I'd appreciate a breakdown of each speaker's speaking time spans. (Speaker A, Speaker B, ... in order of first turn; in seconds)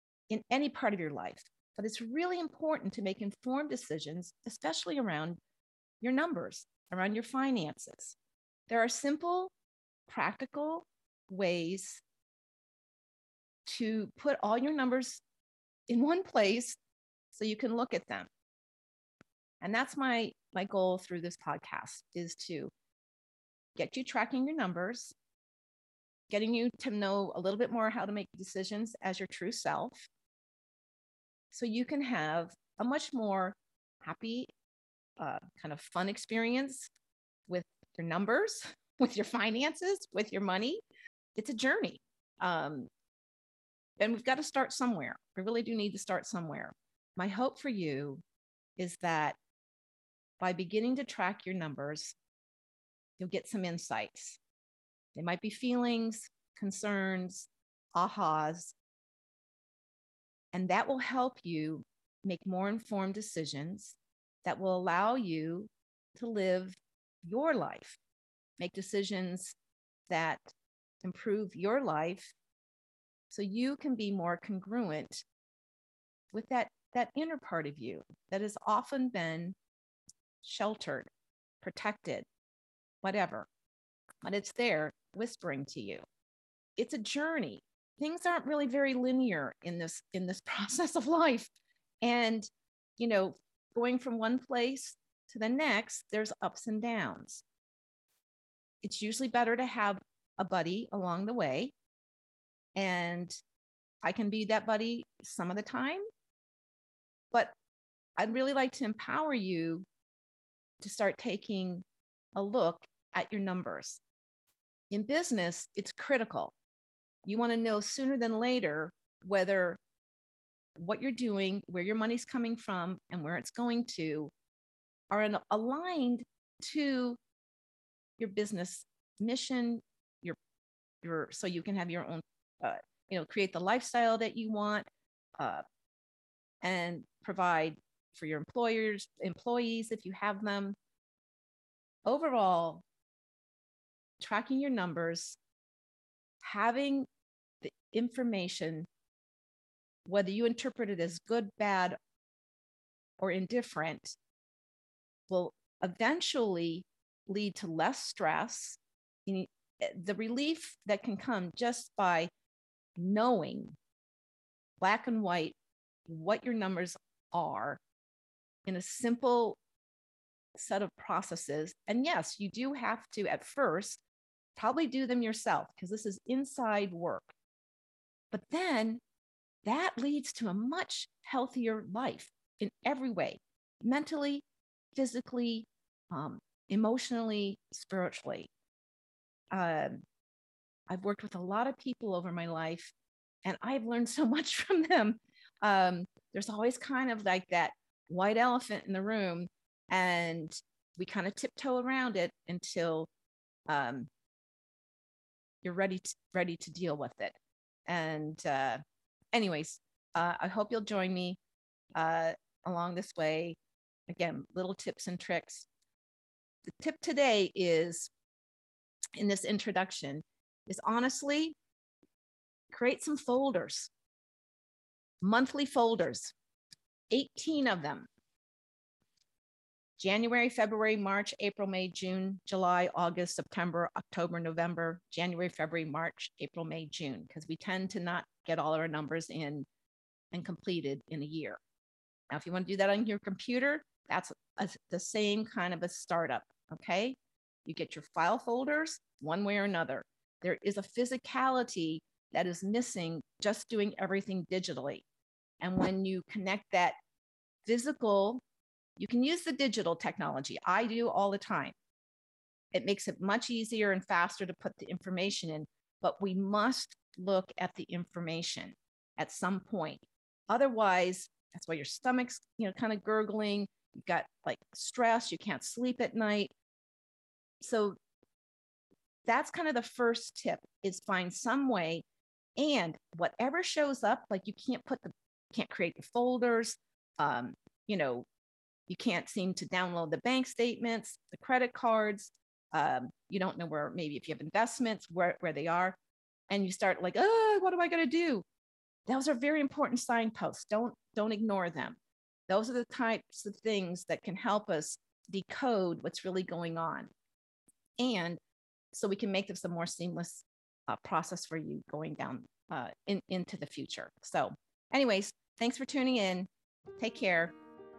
Speaker A: 0.3-5.4, 6.0-8.2, 8.7-9.5, 10.1-12.0, 13.7-15.2, 15.9-16.8, 17.3-18.3, 19.6-22.7, 23.8-25.1, 26.3-30.1, 31.5-34.5, 35.2-36.9, 37.5-40.8, 41.4-42.9, 44.0-48.2, 48.8-49.4, 50.4-52.1, 53.2-54.4, 55.1-58.8, 60.5-68.0, 68.6-69.6, 70.1-70.5, 71.0-72.3, 73.3-75.2, 76.3-79.6, 80.4-81.1, 81.6-82.3, 83.0-83.5, 84.2-86.0, 86.8-91.5, 92.0-97.4, 98.8-101.7, 102.8-103.4, 104.0-106.0, 108.2-109.9, 110.8-114.0, 114.9-116.5, 117.2-119.8, 120.8-124.3, 125.1-127.2, 128.2-130.4, 131.0-134.9, 135.4-135.6, 136.6-140.8, 142.1-142.8, 144.2-145.4, 146.4-147.1, 147.6-148.9, 150.1-152.0, 153.2-154.2, 155.3-162.3, 163.0-163.8, 164.8-165.6, 166.1-167.8, 168.7-169.6, 170.6-174.0, 174.6-177.3, 178.3-179.0, 179.7-188.5, 189.5-190.0, 190.9-192.9, 193.4-203.1, 203.7-204.1, 205.6-207.3, 207.9-208.8, 209.3-211.4, 212.0-213.6, 214.1-215.7, 216.7-218.1, 219.2-221.6, 222.7-223.9, 225.2-226.3, 227.1-228.1, 230.0-239.7, 240.3-241.6, 242.3-255.0, 255.6-257.0, 257.6-258.4, 259.0-261.8, 262.7-276.5, 277.6-278.0, 279.2-282.0, 282.6-288.3, 288.9-296.0, 296.5-298.4, 299.1-307.1, 308.0-308.4, 308.9-317.6